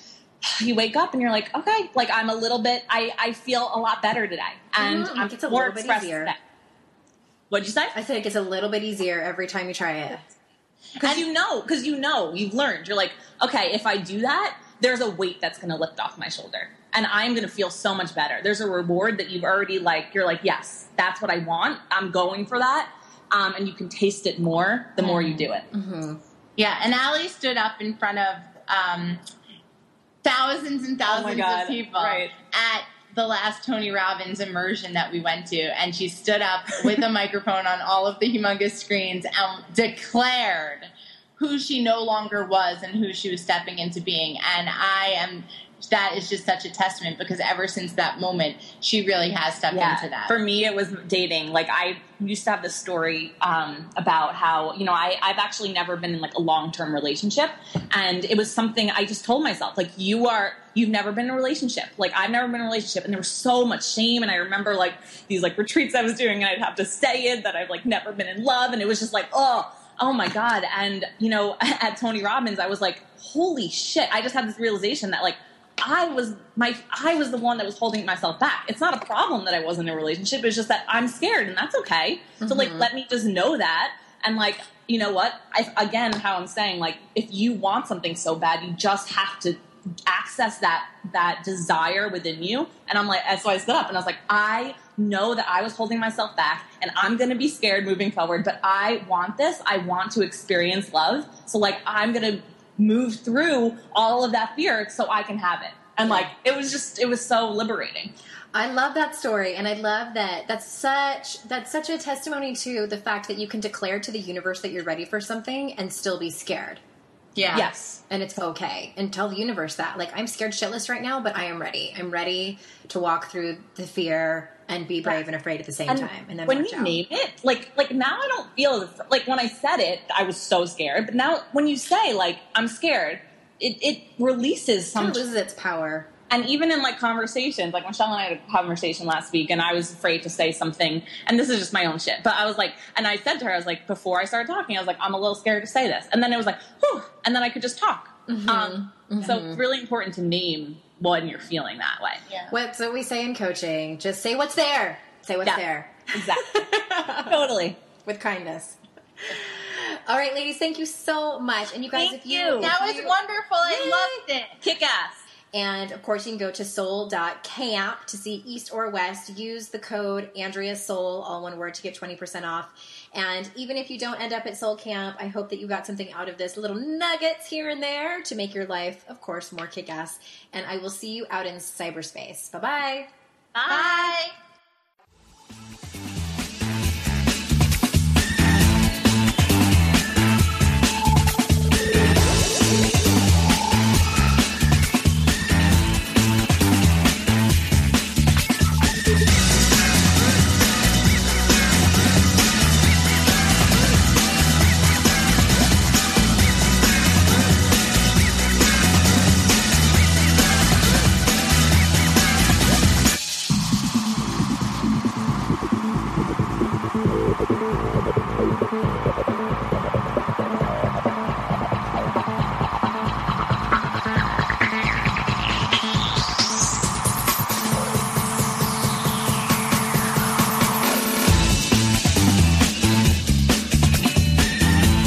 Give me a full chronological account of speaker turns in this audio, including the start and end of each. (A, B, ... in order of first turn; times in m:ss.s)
0:00.4-0:06.4 A
0:04.8-0:06.3 B
0:07.5-0:08.0 A
0:07.9-0:10.3 B
0:11.0-0:25.7 A
0:25.0-0:26.2 B
0:26.6-0:29.2 C
0:30.2-0:50.4 C
0:31.1-0:32.3 A
0:49.7-1:48.1 A
1:22.4-1:22.9 B
1:46.1-1:46.3 B
1:48.5-1:56.8 B
1:57.4-1:57.7 C
1:57.5-1:58.0 A
1:58.1-2:07.0 B
2:05.9-2:15.3 A
2:15.0-2:16.1 B
2:16.3-2:32.3 A
2:28.3-2:29.6 B
2:32.5-2:37.3 B
2:36.1-2:37.8 A
2:38.0-2:44.2 B
2:42.0-2:42.8 A
2:42.6-2:44.6 C
2:44.6-2:45.3 A
2:45.5-3:03.1 B
3:03.6-3:04.1 A
3:03.7-3:04.3 C